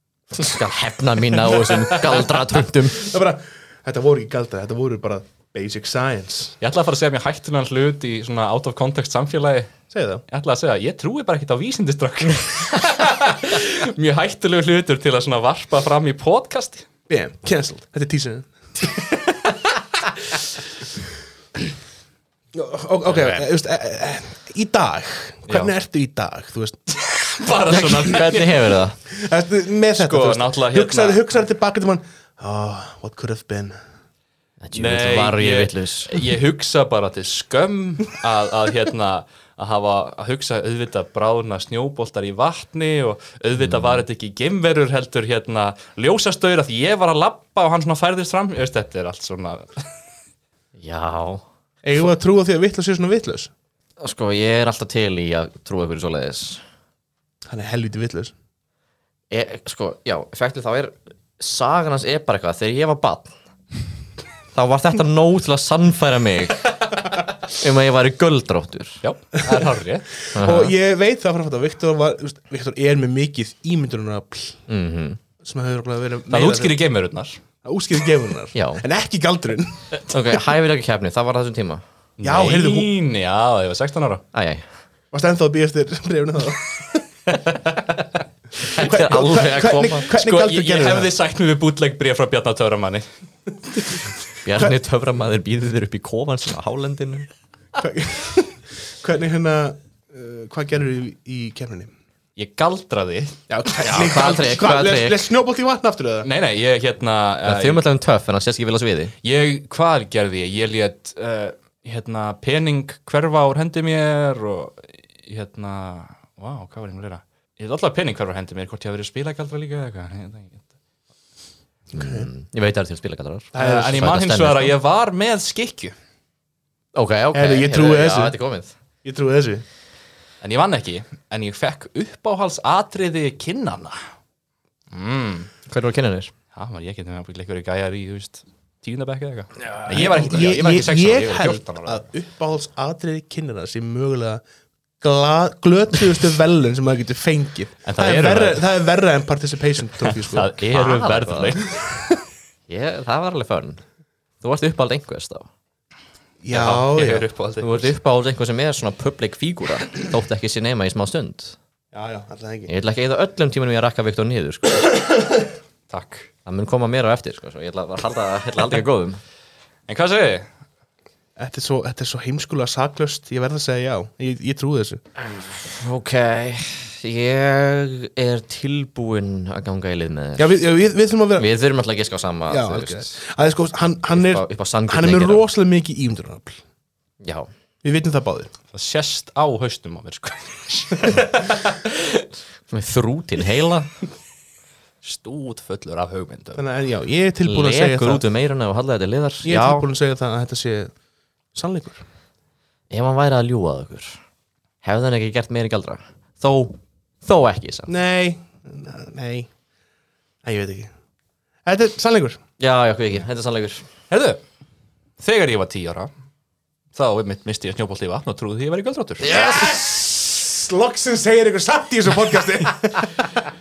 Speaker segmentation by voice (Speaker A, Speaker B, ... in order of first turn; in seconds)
Speaker A: 0.3-3.1, 27.7-29.0, 34.6-36.2, 43.6-44.0, 50.8-51.4, 54.0-56.6, 59.3-63.4, 64.5-66.8, 67.4-69.0, 70.3-70.7, 74.7-75.2, 78.5-78.8, 80.1-81.8, 84.3-84.6, 88.7-90.0, 94.4-97.3, 103.7-105.2, 107.4-109.1, 121.9-124.7, 126.9-128.7, 135.7-136.3, 139.8-140.2, 150.7-151.6, 152.7-153.8, 154.4-155.5, 157.6-161.6, 162.7-164.9, 166.4-169.2, 175.2-180.6, 181.4-183.1, 184.1-185.4, 187.2-187.5, 192.7-193.9, 197.4-199.8, 202.9-204.2, 204.8-207.9, 212.6-213.8
Speaker B: 2.9-6.5, 9.9-10.2, 17.1-18.8, 22.5-26.8, 29.1-33.8, 51.8-53.5, 57.5-58.3, 70.3-74.6, 75.4-76.8, 77.6-80.4, 82.2-82.9, 85.1-87.0, 88.8-91.1, 97.8-101.9, 103.5-106.3, 121.9-122.3, 123.5-123.9, 127.3-128.4, 129.0-129.6, 139.9-144.4, 145.0-150.6, 156.4-157.2, 161.9-162.7, 171.4-175.0, 180.4-181.5, 182.5-186.6, 187.8-188.5, 196.6-198.2, 199.4-200.9, 201.5-202.0, 207.9-209.5, 210.4-210.9, 211.6-212.4, 219.2-223.4
Speaker C: 6.6-9.7, 10.3-16.9, 23.1-23.4, 25.5-25.7, 27.0-28.8, 30.0-31.2, 34.7-49.9, 69.0-70.1, 76.3-77.4, 82.2-84.2, 87.3-87.9, 90.0-93.0, 102.3-103.4, 106.2-107.8, 109.2-120.6, 123.5-125.9, 130.4-134.0, 134.9-135.5, 136.5-142.0, 147.8-148.6, 150.0-151.8, 156.5-157.8, 165.9-166.3, 169.9-170.5, 188.7-192.2, 195.0-196.6, 214.1-214.4, 215.2-216.1, 216.9-219.4